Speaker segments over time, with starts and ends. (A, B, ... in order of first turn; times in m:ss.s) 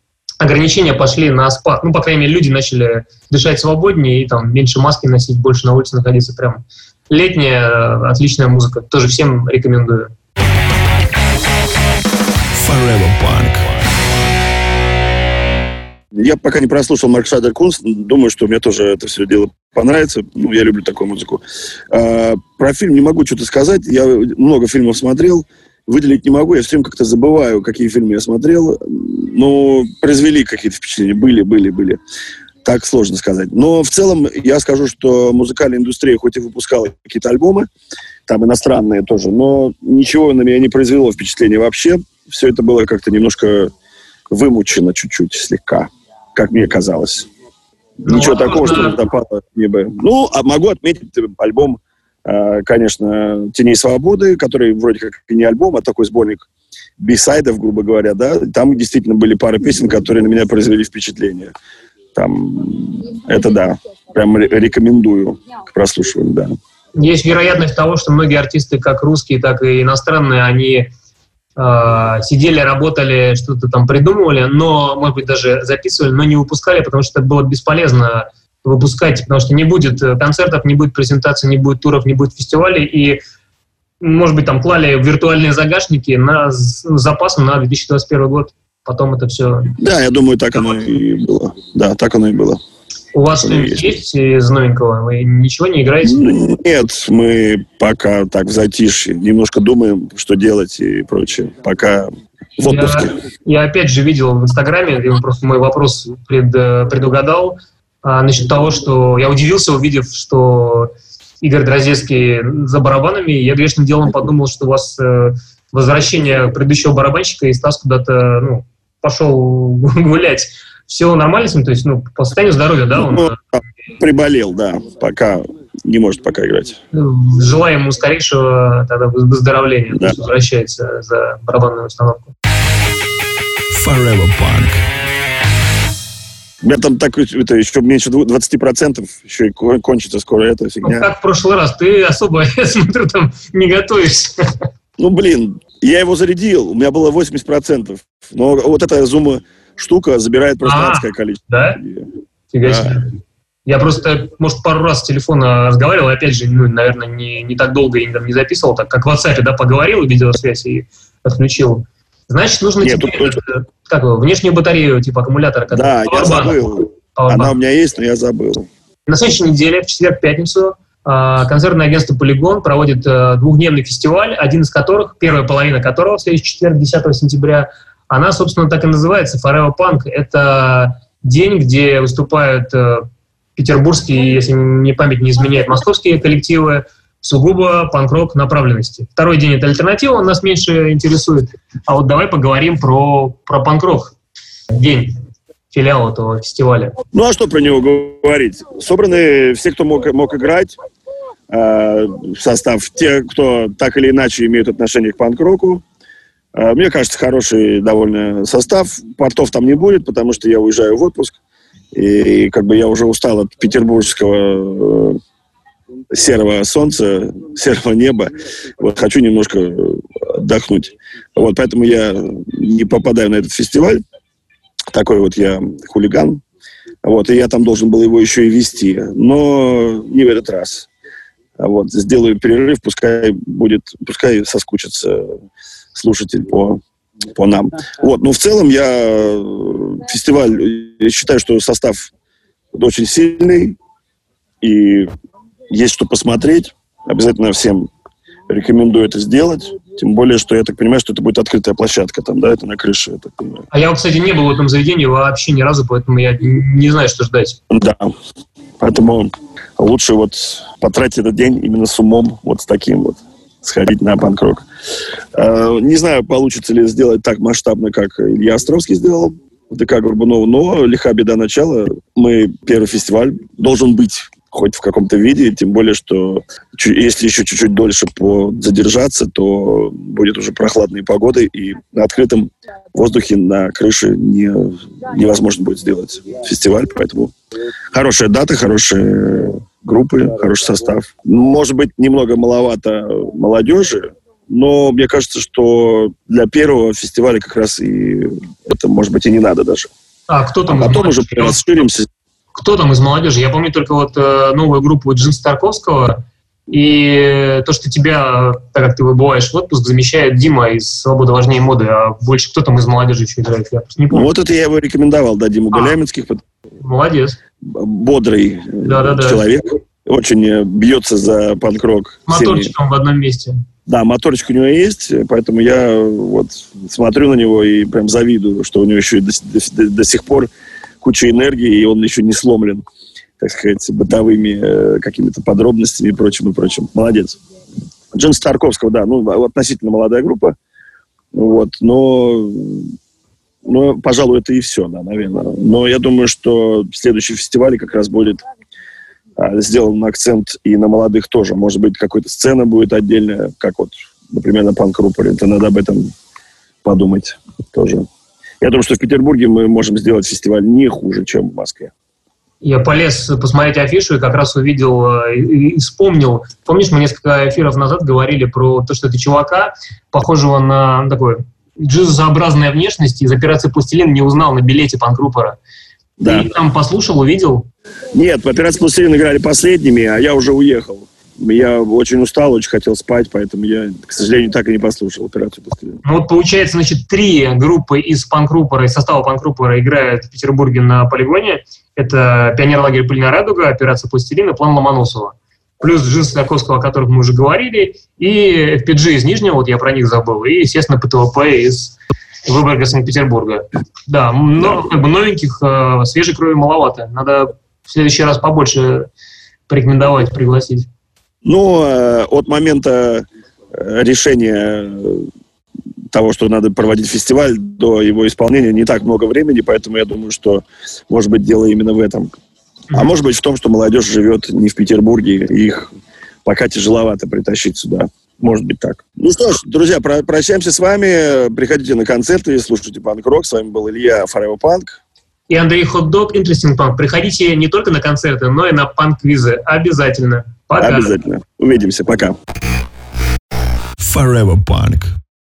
0:00.4-0:10.1 A
0:12.5-0:14.0 B
0:16.1-0:32.0 C
0:32.6-0:37.7 C
0:38.2-0:43.7 C
0:44.3-0:47.3 C
0:48.0-0:56.4 C
0:48.0-0:49.0 A
0:57.0-1:01.5 C
1:02.1-1:06.5 C
1:07.0-1:10.9 A
1:11.6-1:23.2 A
1:24.0-1:29.8 A
1:29.8-1:32.6 C
1:33.1-1:36.4 A
1:33.4-1:34.0 C
1:36.0-1:43.2 C
1:42.7-2:03.4 A
2:02.9-2:06.8 C
2:06.9-2:12.3 A
2:09.9-2:10.2 C
2:13.7-2:14.8 B
2:16.6-2:21.1 C
2:20.8-2:24.4 A
2:25.0-2:32.1 C
2:30.6-2:31.8 A
2:32.5-2:33.1 A
2:32.6-2:33.0 C
2:33.6-2:47.5 A
2:42.8-2:43.4 C
2:45.7-2:48.7 C
2:49.1-3:14.1 A
3:14.7-3:15.1 A
3:15.7-3:16.9 A
3:17.1-3:20.7 C
3:21.5-3:25.8 C
3:26.5-3:31.4 C
3:31.9-3:35.2 C
3:36.1-3:44.0 C
3:44.9-3:46.4 C
3:47.0-3:50.9 C
3:51.6-3:55.4 C
3:55.9-3:56.8 C
3:57.3-4:02.1 C
4:02.7-4:03.8 C
4:04.6-4:05.1 C
4:05.7-4:07.9 C
4:08.5-4:13.6 C
4:13.7-4:17.6 A
4:17.7-4:18.1 C
4:18.8-4:24.6 C
4:25.3-4:47.3 C
4:47.9-4:59.9 C
5:00.3-5:01.7 A
5:00.7-5:02.1 C
5:02.5-5:14.3 A
5:14.1-5:16.4 C
5:15.7-5:16.0 A
5:16.8-5:17.4 A
5:17.6-5:22.7 C
5:18.8-5:19.4 A
5:22.3-5:23.6 A
5:23.8-5:30.5 C
5:31.0-5:32.8 C
5:33.4-5:37.4 C
5:38.1-5:40.5 C
5:41.3-5:42.9 C
5:43.6-5:48.4 C
5:49.4-5:56.1 C
5:56.8-5:58.1 C
5:58.6-6:01.9 C
6:02.6-6:15.6 A
6:16.2-6:16.5 C
6:16.2-6:17.6 A
6:18.1-6:26.0 C
6:26.0-6:49.1 A
6:44.6-6:44.9 C
6:49.7-6:50.9 A
6:51.4-6:55.3 C
6:56.1-7:02.3 C
7:02.9-7:05.9 C
7:06.4-7:15.0 C
7:15.5-7:21.1 A
7:20.8-7:22.4 C
7:24.0-7:25.1 B